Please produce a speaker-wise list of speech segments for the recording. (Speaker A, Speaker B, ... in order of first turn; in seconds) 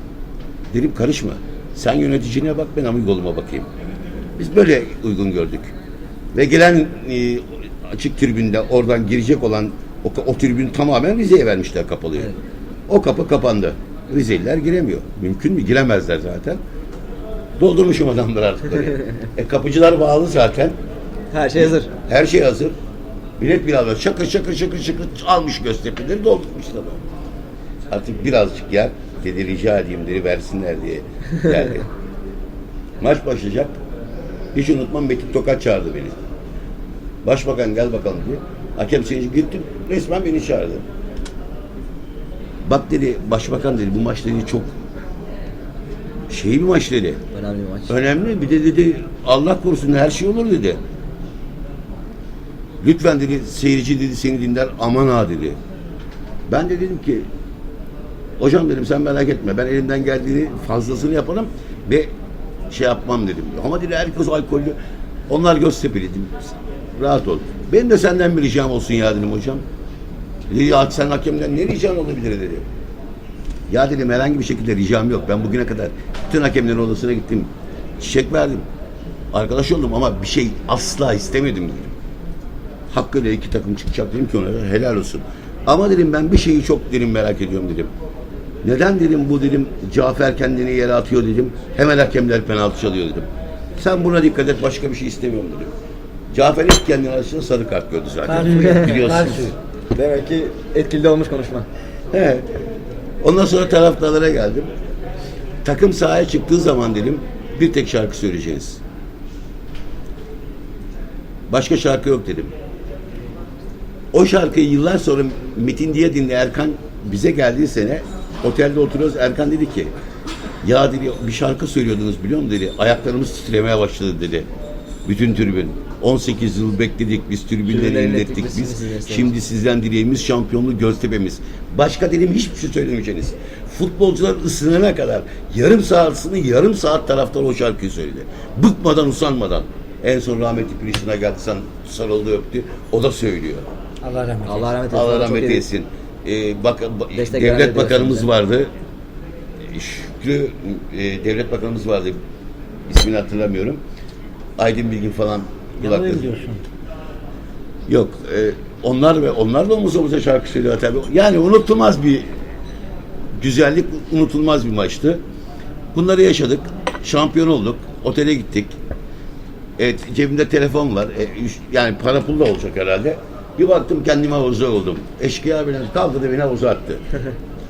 Speaker A: 0.7-3.7, 4.4-5.7, 6.3-12.3, 12.9-16.6, 17.6-20.8, 21.6-22.7, 23.4-27.1, 27.9-31.9, 33.0-33.8, 34.5-36.2, 37.2-40.9, 42.7-44.7, 46.3-47.2, 47.9-50.8, 52.8-55.6, 56.5-57.3, 58.4-62.1, 62.7-64.8, 65.3-69.6, 70.5-72.7, 73.7-78.7, 79.3-81.9, 82.9-87.9, 88.6-95.7, 96.3-99.6, 102.1-102.5, 103.2-104.7, 105.7-108.8, 111.5-112.5, 114.1-119.9, 120.6-124.5, 125.0-143.7, 144.9-148.7, 149.7-152.2, 152.9-153.8, 154.6-156.4, 157.9-162.3, 163.4-165.2, 165.9-168.8, 169.8-177.0
Speaker B: 21.3-21.9, 47.3-48.0, 98.5-99.2, 99.9-101.7, 127.7-129.3, 144.4-145.6, 147.1-148.3
Speaker C: 98.3-99.5, 144.0-144.6, 155.8-156.6